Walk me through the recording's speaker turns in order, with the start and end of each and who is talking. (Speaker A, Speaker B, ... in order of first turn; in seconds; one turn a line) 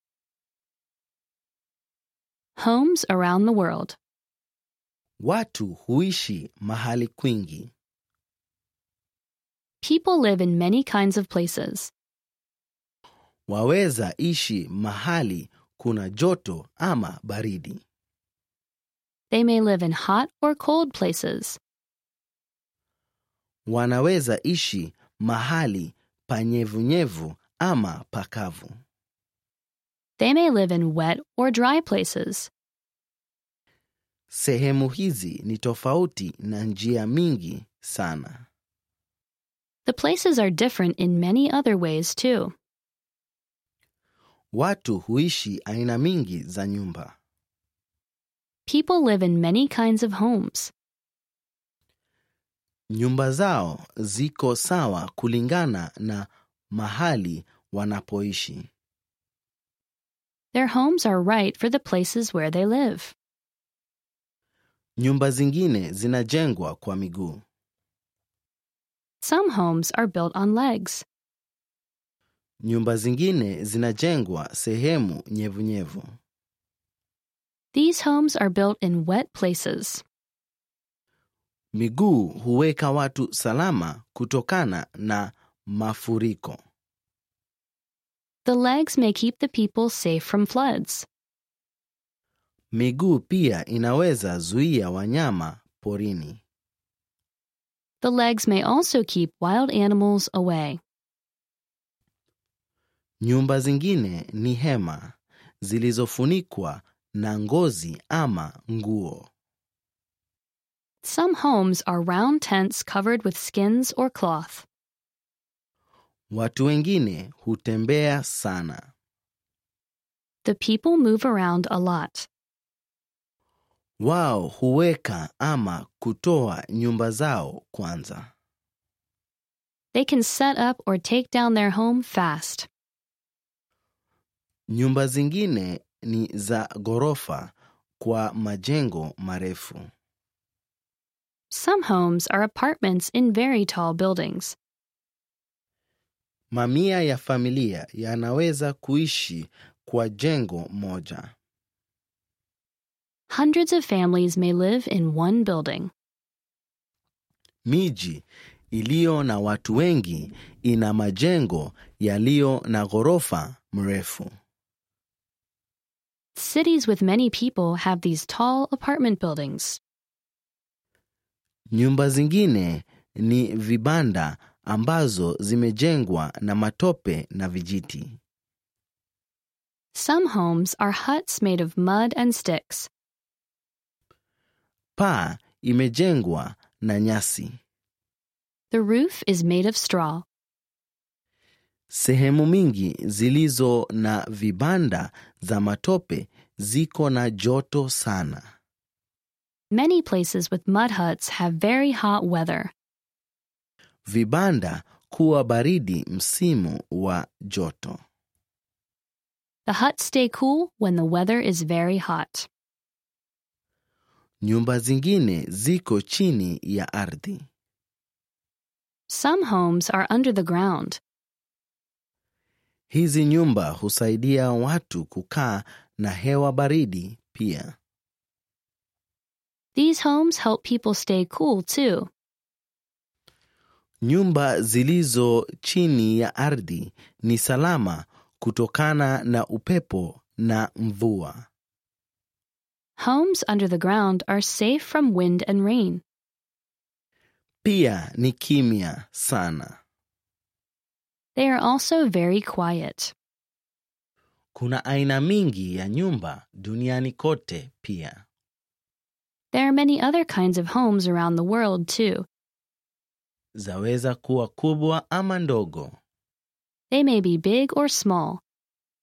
Speaker A: 2.6-4.0
Speaker B: 5.2-7.7
Speaker A: 9.8-11.9
Speaker B: 13.5-17.8
Speaker A: 19.3-21.6
Speaker B: 23.7-28.7
Speaker A: 30.2-32.5
Speaker B: 34.3-38.5
Speaker A: 39.9-42.5
Speaker B: 44.5-47.1
Speaker A: 48.7-50.7
Speaker B: 52.9-58.7
Speaker A: 60.5-63.1
Speaker B: 65.0-67.4
Speaker A: 69.2-71.0
Speaker B: 72.6-76.1
Speaker A: 77.7-80.0
Speaker B: 81.8-86.6
Speaker A: 88.4-91.1
Speaker B: 92.7-96.4
Speaker A: 98.0-100.8
Speaker B: 103.2-109.3
Speaker A: 111.0-114.7
Speaker B: 116.3-118.9
Speaker A: 120.4-122.3
Speaker B: 124.0-128.3
Speaker A: 129.9-132.7
Speaker B: 134.7-139.9
Speaker A: 141.5-144.6
Speaker B: 146.5-151.3
Speaker A: 153.3-155.9
Speaker B: 157.7-164.3
Speaker A: 166.3-169.8
Speaker B: 171.7-178.2
Speaker A: 179.9-182.9
Speaker B: 185.0-187.6
Speaker A: 188.7-190.2
Speaker B: 191.9-198.4
Speaker A: 199.7-202.7
Speaker B: 204.1-208.0
Speaker A: 209.7-212.5
Speaker B: 214.4-217.5
Speaker A: 219.1-221.0
Speaker B: 222.9-227.8
Speaker A: 229.8-232.1
Speaker B: 234.0-241.5
Speaker A: 243.0-246.0
Speaker B: 247.6-249.8
Speaker A: 251.4-253.1
Speaker B: 254.6-258.2
Speaker A: 259.5-262.3
Speaker B: 263.6-266.0
Speaker A: 266.9-268.4